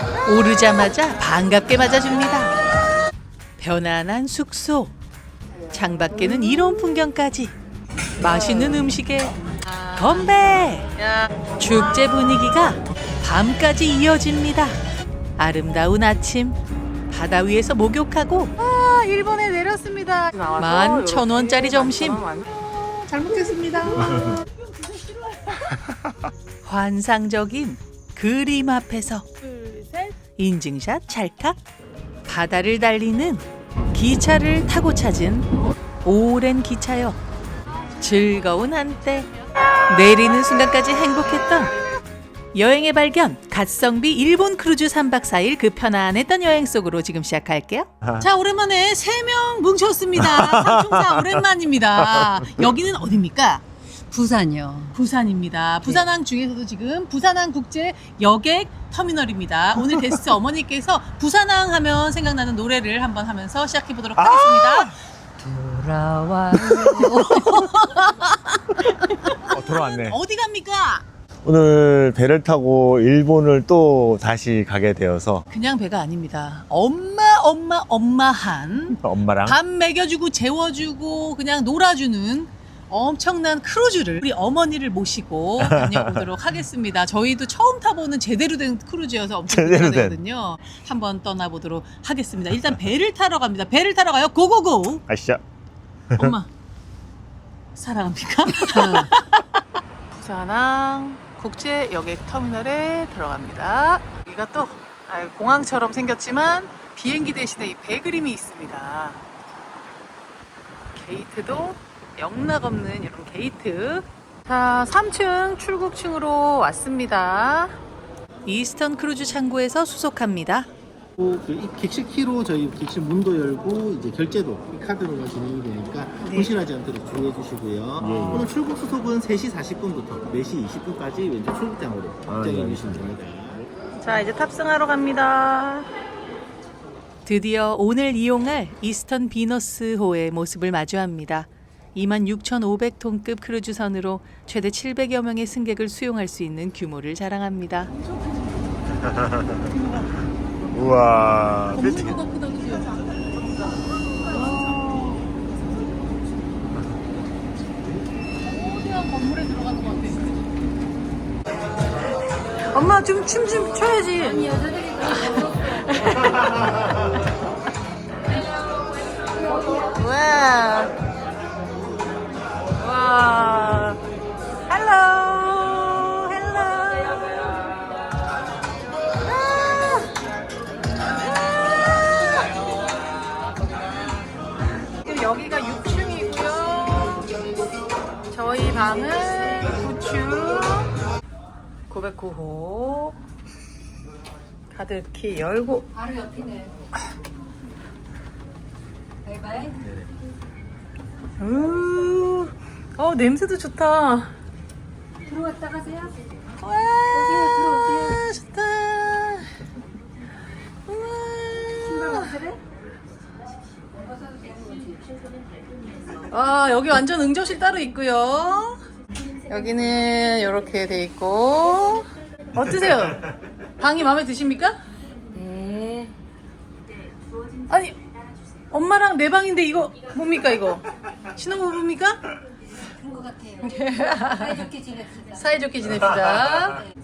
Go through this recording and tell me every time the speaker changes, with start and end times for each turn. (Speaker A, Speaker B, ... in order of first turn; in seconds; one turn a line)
Speaker A: 0.2-2.5
Speaker A: 3.6-4.9
Speaker A: 5.7-7.5
Speaker A: 8.2-9.3
Speaker B: 9.6-11.3
Speaker A: 10.0-10.9
Speaker A: 11.6-14.8
Speaker A: 15.4-16.6
Speaker A: 17.1-18.5
Speaker B: 18.6-25.7
Speaker A: 20.6-22.2
Speaker C: 24.1-24.4
Speaker A: 26.6-29.3
Speaker B: 29.4-30.2
Speaker A: 30.4-31.6
Speaker A: 32.3-35.5
Speaker A: 36.0-37.2
Speaker A: 38.0-39.3
Speaker A: 39.9-41.8
Speaker A: 42.5-47.9
Speaker B: 48.2-53.6
Speaker C: 50.2-51.4
Speaker C: 52.1-52.5
Speaker D: 54.1-55.0
Speaker B: 54.9-65.0
Speaker C: 64.2-64.9
Speaker D: 65.4-67.8
Speaker B: 66.6-71.0
Speaker C: 69.5-70.2
Speaker C: 71.4-75.4
Speaker B: 75.5-95.0
Speaker C: 79.0-79.6
Speaker C: 85.6-86.3
Speaker C: 89.5-90.2
Speaker C: 95.1-95.4
Speaker B: 96.2-96.5
Speaker B: 97.8-99.4
Speaker D: 98.7-99.1
Speaker B: 100.1-109.2
Speaker B: 110.9-117.8
Speaker A: 118.5-120.7
Speaker E: 121.2-133.6
Speaker B: 126.2-126.6
Speaker C: 128.0-128.5
Speaker C: 132.3-133.1
Speaker B: 134.0-135.9
Speaker A: 137.2-147.9
Speaker B: 147.9-148.7
Speaker C: 149.0-149.6
Speaker B: 149.6-150.2
Speaker C: 150.7-152.2
Speaker B: 151.7-152.9
Speaker B: 154.2-155.3
Speaker B: 158.4-160.5
Speaker B: 162.7-164.5
Speaker D: 164.2-166.1
Speaker B: 165.1-166.6
Speaker B: 169.6-170.9
Speaker B: 172.8-174.0
Speaker B: 174.7-177.5
Speaker B: 179.2-180.1
Speaker B: 181.2-183.3
Speaker B: 185.0-187.3
Speaker B: 188.3-190.9
Speaker B: 191.9-193.2
Speaker B: 194.7-195.9
Speaker D: 195.9-196.8
Speaker D: 199.2-200.0
Speaker B: 201.4-204.3
Speaker D: 205.2-206.4
Speaker B: 206.6-209.5
Speaker D: 207.1-208.2
Speaker B: 210.9-212.4
Speaker D: 211.8-212.6
Speaker D: 213.9-215.3
Speaker B: 216.3-218.8
Speaker B: 219.5-223.2
Speaker B: 223.8-224.8
Speaker D: 225.3-226.2
Speaker B: 227.7-228.0
Speaker B: 228.7-232.2
Speaker D: 232.8-235.7
Speaker B: 233.6-234.7
Speaker B: 235.4-236.8